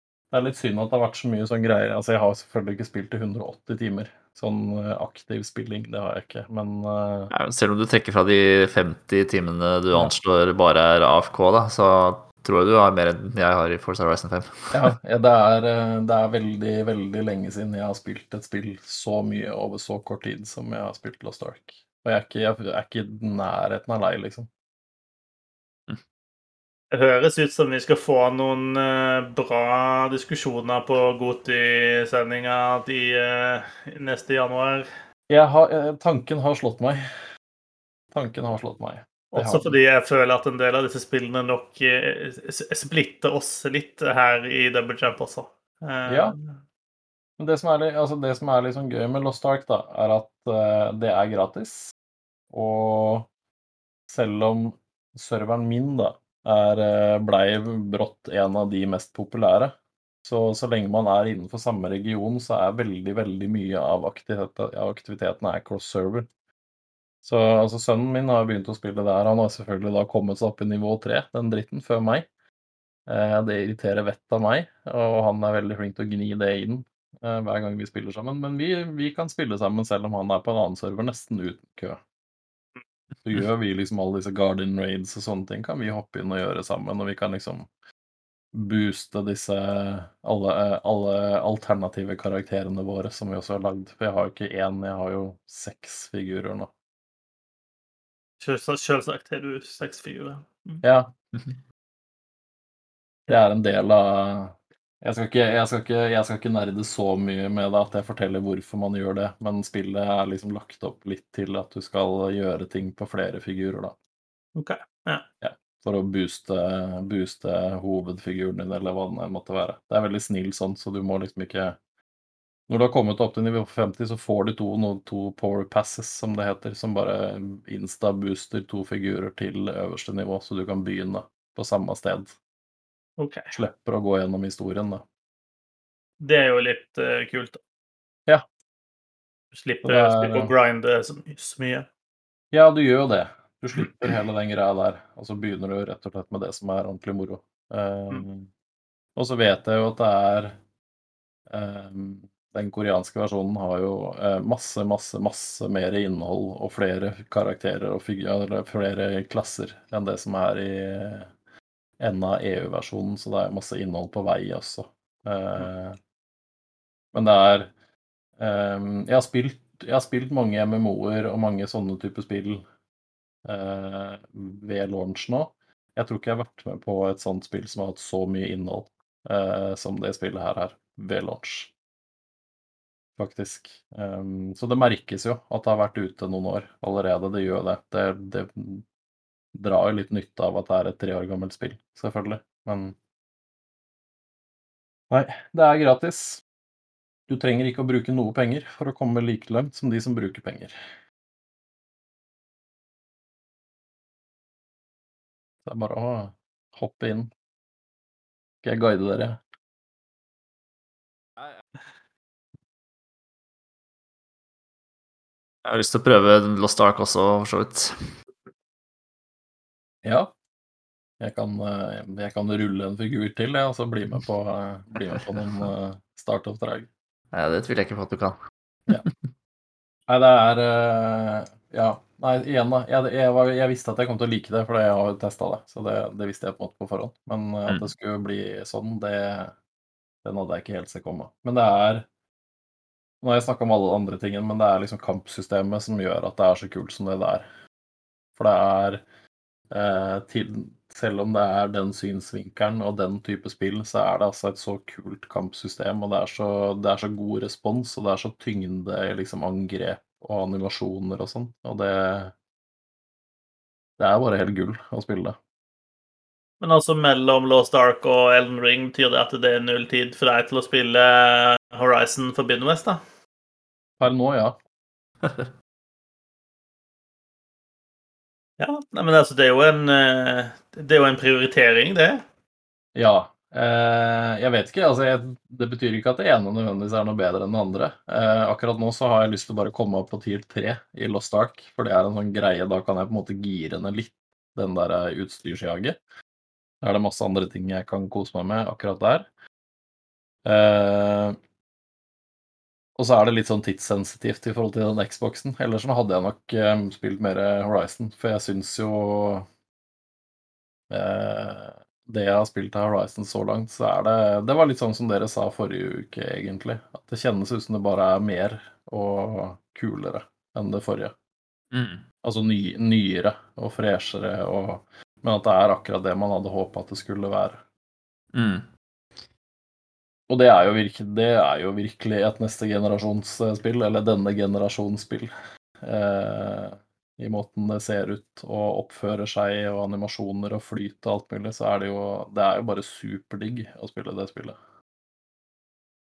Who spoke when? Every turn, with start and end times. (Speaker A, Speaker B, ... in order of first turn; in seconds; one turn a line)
Speaker A: 0.3-7.3
Speaker B: 7.3-14.9
Speaker A: 14.7-24.5
Speaker C: 26.9-34.9
Speaker A: 35.3-37.0
Speaker A: 38.1-39.8
Speaker C: 39.3-46.5
Speaker A: 46.1-46.3
Speaker A: 47.4-51.9
Speaker A: 52.5-53.3
Speaker A: 54.1-59.7
Speaker A: 60.2-66.3
Speaker A: 67.2-72.3
Speaker A: 73.1-82.0
Speaker A: 83.2-87.7
Speaker A: 88.5-96.7
Speaker C: 98.4-100.8
Speaker A: 100.8-101.1
Speaker A: 103.3-113.9
Speaker C: 114.5-115.2
Speaker A: 115.4-121.8
Speaker A: 122.7-132.3
Speaker C: 133.2-133.5
Speaker A: 133.5-135.0
Speaker C: 136.2-137.6
Speaker C: 139.5-141.8
Speaker A: 139.8-140.5
Speaker A: 142.5-148.5
Speaker A: 149.2-150.6
Speaker A: 151.5-161.3
Speaker A: 162.0-166.0
Speaker A: 167.1-167.7
Speaker A: 168.4-172.6
Speaker A: 173.4-181.7
Speaker A: 183.2-188.8
Speaker A: 189.5-192.9
Speaker A: 195.1-196.4
Speaker A: 197.3-200.8
Speaker A: 205.6-207.3
Speaker A: 208.6-209.4
Speaker B: 215.6-217.9
Speaker A: 220.0-220.3
Speaker A: 221.2-226.9
Speaker B: 225.1-225.7
Speaker B: 227.3-228.4
Speaker B: 228.9-229.2
Speaker A: 230.1-239.5
Speaker A: 240.2-242.1
Speaker A: 243.2-247.4
Speaker A: 248.3-249.0
Speaker A: 249.7-262.3
Speaker A: 264.0-265.4
Speaker C: 266.6-273.0
Speaker A: 274.0-274.6
Speaker B: 275.2-275.5
Speaker C: 278.6-282.2
Speaker A: 282.9-296.0
Speaker A: 296.8-299.3
Speaker A: 300.4-301.4
Speaker A: 303.0-309.5
Speaker A: 310.9-321.1
Speaker B: 321.7-322.0
Speaker A: 322.2-327.6
Speaker B: 328.3-328.7
Speaker A: 330.3-335.3
Speaker A: 335.8-344.6